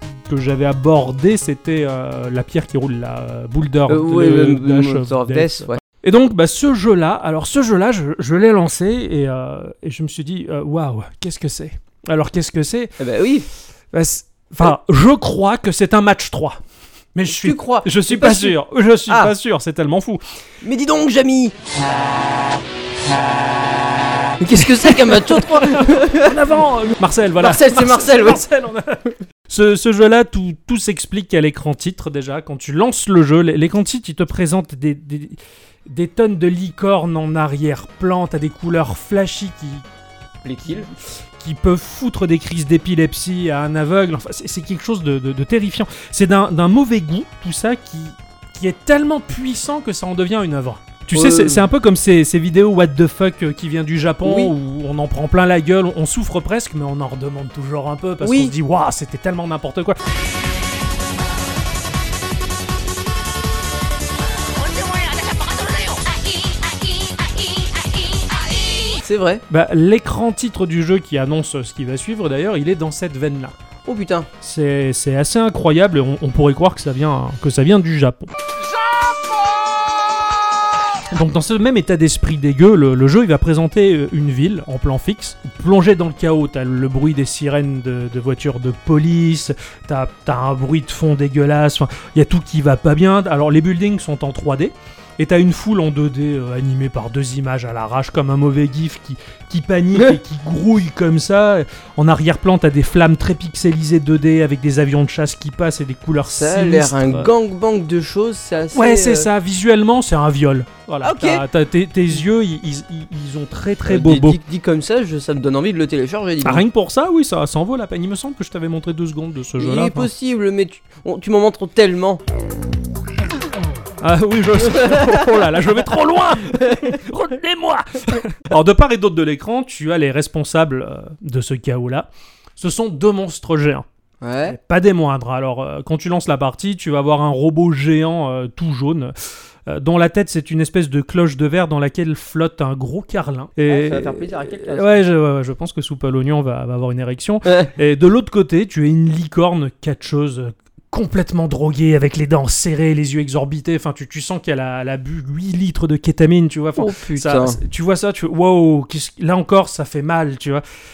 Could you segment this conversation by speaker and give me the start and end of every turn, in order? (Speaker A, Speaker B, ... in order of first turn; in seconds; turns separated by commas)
Speaker A: 0.2-13.0, Speaker B: 3.9-5.8, Speaker B: 13.0-13.5, Speaker A: 13.9-16.6, Speaker A: 17.1-20.2, Speaker B: 17.3-18.6, Speaker B: 19.1-19.3, Speaker B: 20.6-21.6, Speaker B: 24.4-26.4, Speaker A: 24.8-39.8, Speaker B: 27.4-28.4, Speaker B: 40.4-40.9, Speaker A: 41.4-60.0, Speaker B: 51.1-51.6, Speaker B: 54.2-54.5, Speaker B: 58.2-58.5, Speaker B: 68.9-69.4, Speaker A: 69.5-73.5, Speaker B: 73.8-74.3, Speaker A: 74.4-78.3, Speaker A: 81.1-107.3, Speaker B: 106.3-109.3, Speaker A: 108.7-114.4, Speaker B: 111.0-111.4, Speaker B: 113.9-116.6, Speaker A: 116.4-120.1, Speaker B: 119.6-122.2, Speaker A: 124.0-133.9, Speaker B: 124.7-125.1, Speaker B: 134.2-134.6, Speaker A: 134.4-139.1, Speaker A: 139.7-160.6, Speaker B: 143.7-145.0, Speaker B: 156.8-157.6